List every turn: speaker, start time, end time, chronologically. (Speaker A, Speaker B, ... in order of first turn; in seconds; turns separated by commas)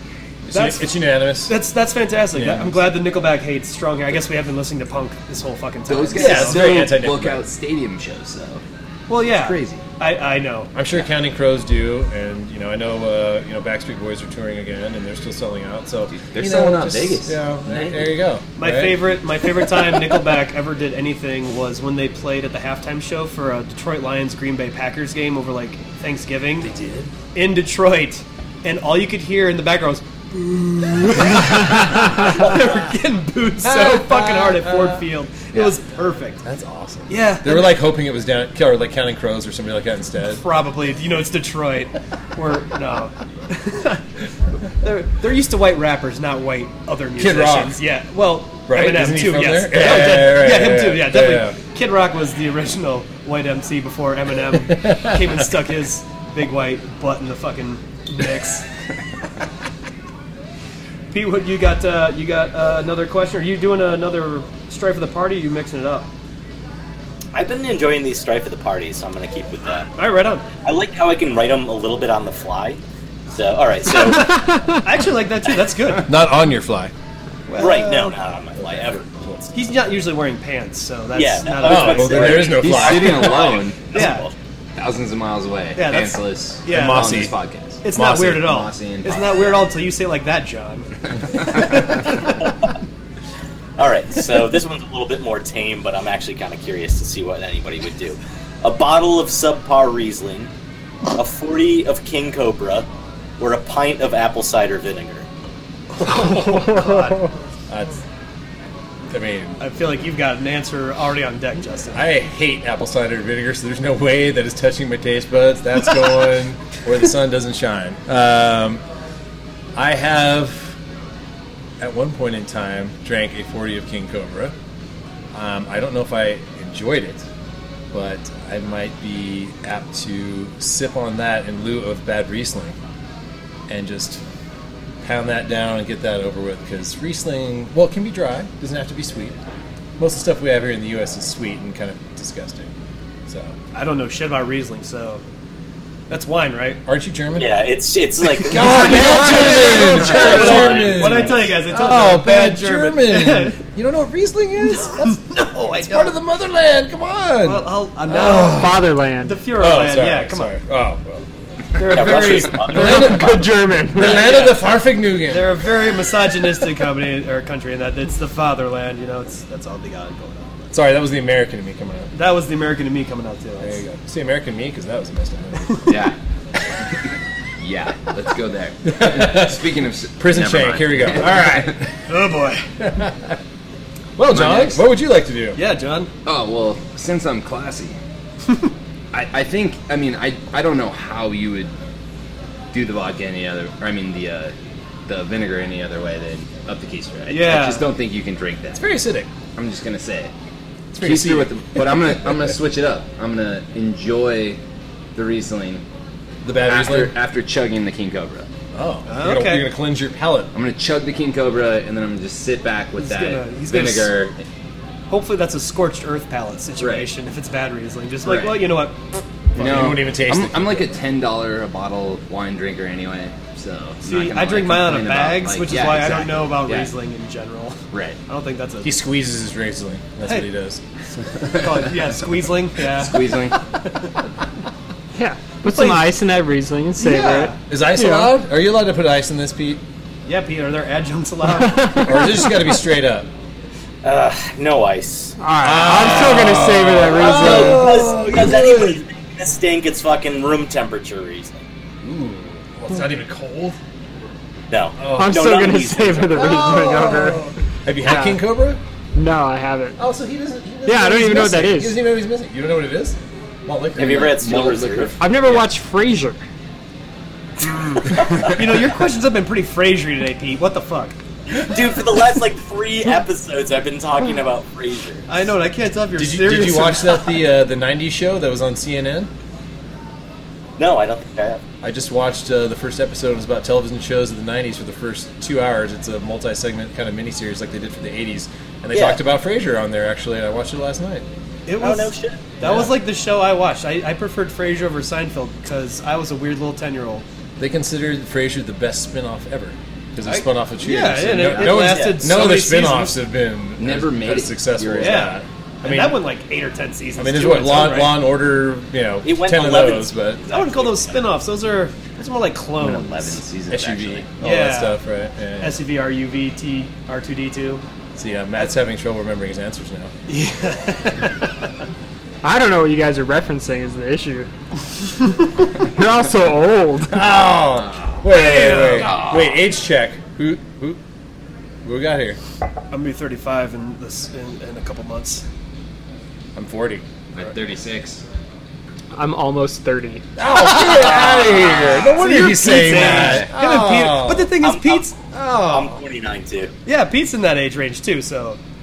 Speaker A: 0.5-1.6, Speaker B: 0.5-0.9, Speaker B: 1.5-6.8, Speaker A: 2.3-2.9, Speaker C: 5.9-8.6, Speaker A: 6.2-7.5, Speaker B: 9.1-10.7, Speaker C: 9.2-9.9, Speaker A: 10.7-19.1, Speaker C: 16.1-18.2, Speaker B: 18.6-36.4, Speaker A: 33.6-35.0, Speaker A: 36.4-40.4, Speaker B: 37.1-37.8, Speaker B: 40.3-44.0, Speaker B: 44.8-58.6, Speaker A: 47.2-47.8, Speaker A: 48.7-51.6, Speaker A: 54.8-55.2, Speaker B: 61.1-66.1, Speaker D: 67.3-69.9, Speaker B: 70.0-70.5, Speaker D: 70.6-74.4, Speaker E: 74.3-74.8, Speaker B: 74.8-76.1, Speaker A: 76.0-76.9, Speaker B: 77.5-78.2, Speaker D: 77.6-79.0, Speaker A: 78.6-79.5, Speaker B: 79.5-82.7, Speaker D: 81.2-84.3, Speaker A: 81.6-83.6, Speaker C: 82.3-83.9, Speaker B: 83.9-84.3, Speaker C: 84.8-89.6, Speaker B: 85.8-87.2, Speaker A: 86.7-87.3, Speaker B: 87.8-90.9, Speaker A: 87.9-88.5, Speaker B: 91.4-92.3, Speaker D: 93.8-100.5, Speaker D: 101.1-102.9, Speaker D: 103.4-105.3, Speaker B: 106.0-107.3, Speaker E: 106.2-107.3, Speaker A: 107.7-108.0, Speaker A: 109.1-109.6, Speaker B: 109.6-112.0, Speaker A: 111.9-118.8, Speaker A: 119.8-120.8, Speaker A: 121.8-124.5, Speaker A: 125.3-127.2, Speaker A: 127.9-132.8, Speaker A: 133.7-134.2, Speaker A: 135.0-139.4, Speaker A: 140.0-142.7, Speaker A: 143.3-143.6, Speaker B: 143.7-145.2, Speaker B: 146.1-146.8, Speaker A: 146.9-147.5, Speaker D: 147.4-151.5, Speaker A: 148.4-155.2, Speaker B: 148.8-153.6, Speaker B: 154.6-156.2, Speaker A: 155.8-158.9, Speaker B: 157.4-160.6, Speaker E: 158.4-159.4, Speaker A: 159.6-165.6, Speaker B: 161.8-163.0, Speaker D: 161.8-164.7, Speaker E: 162.7-164.4, Speaker B: 165.3-170.7, Speaker A: 170.7-172.1, Speaker B: 172.1-173.8, Speaker A: 173.6-175.9, Speaker C: 175.9-176.2, Speaker C: 177.6-181.7, Speaker A: 178.8-179.6, Speaker A: 180.2-182.0, Speaker B: 182.1-182.7, Speaker A: 182.8-183.4, Speaker A: 184.2-185.6, Speaker C: 184.3-184.8, Speaker B: 185.6-186.1, Speaker C: 186.2-188.0, Speaker C: 189.1-191.7, Speaker C: 192.7-194.6, Speaker C: 195.1-198.8, Speaker B: 197.3-197.9, Speaker A: 198.8-199.3, Speaker C: 199.6-200.3, Speaker A: 200.9-202.6, Speaker C: 201.0-204.6, Speaker C: 205.2-205.8, Speaker A: 206.4-207.1, Speaker C: 206.6-208.5, Speaker A: 208.7-210.5, Speaker B: 209.1-209.7, Speaker C: 210.5-214.4, Speaker B: 213.0-214.2, Speaker B: 215.1-219.2, Speaker C: 216.8-217.1, Speaker C: 218.2-218.7, Speaker A: 219.6-220.8, Speaker C: 219.6-226.9, Speaker B: 224.0-229.0, Speaker C: 227.9-228.2, Speaker A: 228.8-231.6, Speaker B: 231.5-233.2, Speaker C: 232.9-233.6, Speaker E: 235.2-238.3, Speaker B: 235.7-236.1, Speaker B: 237.0-237.6, Speaker A: 237.7-239.8, Speaker B: 240.3-242.3, Speaker E: 241.7-242.2, Speaker A: 242.1-243.3, Speaker D: 244.0-245.4, Speaker E: 245.4-248.0, Speaker A: 245.6-249.0, Speaker D: 247.1-251.6, Speaker A: 252.0-253.8, Speaker D: 254.7-256.6, Speaker A: 255.0-255.5, Speaker E: 255.1-257.4, Speaker A: 256.3-258.8, Speaker E: 258.0-258.4, Speaker E: 259.1-260.0, Speaker A: 260.0-264.4, Speaker E: 260.9-262.0, Speaker D: 264.0-265.2, Speaker C: 264.0-265.7, Speaker E: 265.2-266.4, Speaker D: 267.6-268.6, Speaker B: 268.4-271.2, Speaker D: 271.5-275.2, Speaker B: 275.3-277.2, Speaker A: 276.2-279.3, Speaker D: 280.8-281.6, Speaker A: 281.8-291.2, Speaker D: 288.9-289.2, Speaker B: 291.7-297.2, Speaker D: 291.8-292.5, Speaker A: 292.6-293.0, Speaker A: 297.6-306.2, Speaker B: 300.2-303.1, Speaker C: 301.6-303.0, Speaker D: 301.6-302.2, Speaker C: 303.8-305.4, Speaker B: 305.0-308.2, Speaker A: 307.2-310.4, Speaker D: 309.2-311.2, Speaker B: 310.5-313.4, Speaker C: 312.8-314.3, Speaker A: 313.7-315.8, Speaker B: 314.4-315.0, Speaker B: 315.6-317.8, Speaker A: 318.1-320.1, Speaker B: 320.3-321.3, Speaker E: 322.4-324.5, Speaker E: 325.8-327.2, Speaker A: 327.1-331.0, Speaker C: 327.7-328.3, Speaker B: 328.3-329.3, Speaker C: 328.9-329.6, Speaker A: 331.8-332.4, Speaker B: 332.9-335.4, Speaker A: 336.6-337.1, Speaker C: 337.3-338.2, Speaker E: 339.1-340.2, Speaker A: 340.4-344.6, Speaker C: 340.8-342.1, Speaker B: 342.1-345.1, Speaker C: 342.9-343.5, Speaker D: 344.6-346.7, Speaker A: 345.3-345.9, Speaker B: 346.9-348.6